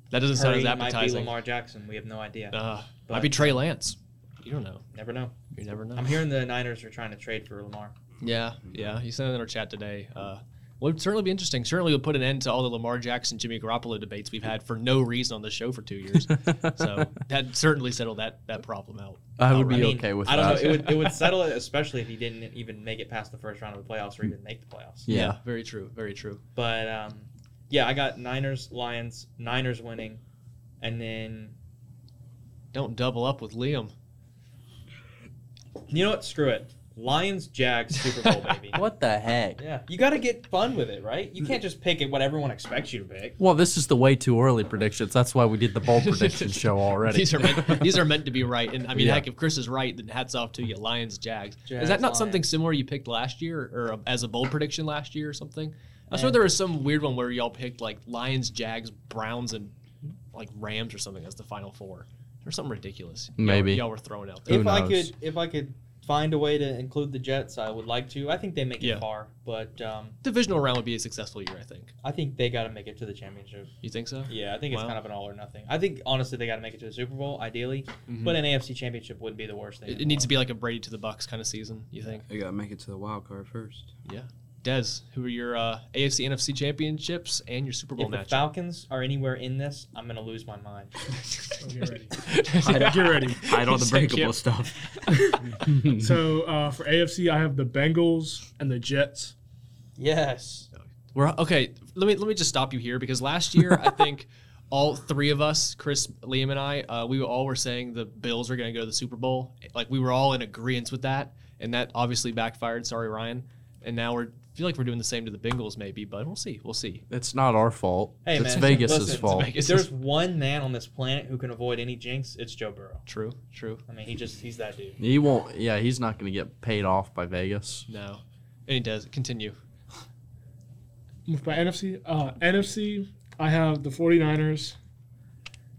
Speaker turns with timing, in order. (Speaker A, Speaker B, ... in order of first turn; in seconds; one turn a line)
Speaker A: 0.1-1.3
Speaker B: 0.3-3.6
Speaker A: 2.5-4.8
Speaker B: 4.9-5.3
Speaker A: 5.5-6.2
Speaker B: 5.9-7.9
Speaker A: 8.2-20.6
Speaker C: 19.4-21.1
Speaker B: 19.5-25.1
Speaker C: 25.1-25.4
Speaker A: 25.1-26.4
Speaker B: 26.5-30.2
Speaker B: 30.8-31.5
Speaker A: 32.7-33.9
Speaker B: 35.9-38.8
Speaker C: 38.7-39.6
Speaker B: 39.6-43.4
Speaker C: 43.4-48.0
Speaker A: 45.9-59.7
Speaker C: 48.9-49.2
Speaker B: 51.7-52.4
Speaker B: 56.1-56.4
Speaker A: 60.3-64.6
Speaker C: 63.4-63.8
Speaker C: 64.5-65.1
Speaker B: 64.5-70.2
Speaker A: 68.8-69.0
Speaker A: 70.2-71.9
Speaker B: 72.0-73.7
Speaker A: 73.8-74.9
Speaker B: 74.3-80.3
Speaker A: 78.1-78.4
Speaker A: 79.8-82.2
Speaker D: 82.2-83.9
Speaker A: 84.0-88.5
Speaker B: 88.0-91.0
Speaker A: 91.3-91.6
Speaker E: 91.6-93.5
Speaker A: 92.1-94.4
Speaker D: 92.6-94.9
Speaker A: 95.0-95.4
Speaker E: 95.3-99.3
Speaker B: 100.0-100.7
Speaker A: 100.8-117.0
Speaker C: 117.1-119.5
Speaker B: 118.2-123.0
Speaker A: 118.6-119.9
Speaker A: 123.0-123.8
Speaker B: 123.9-125.0
Speaker C: 125.0-127.8
Speaker A: 127.9-129.6
Speaker E: 131.2-134.7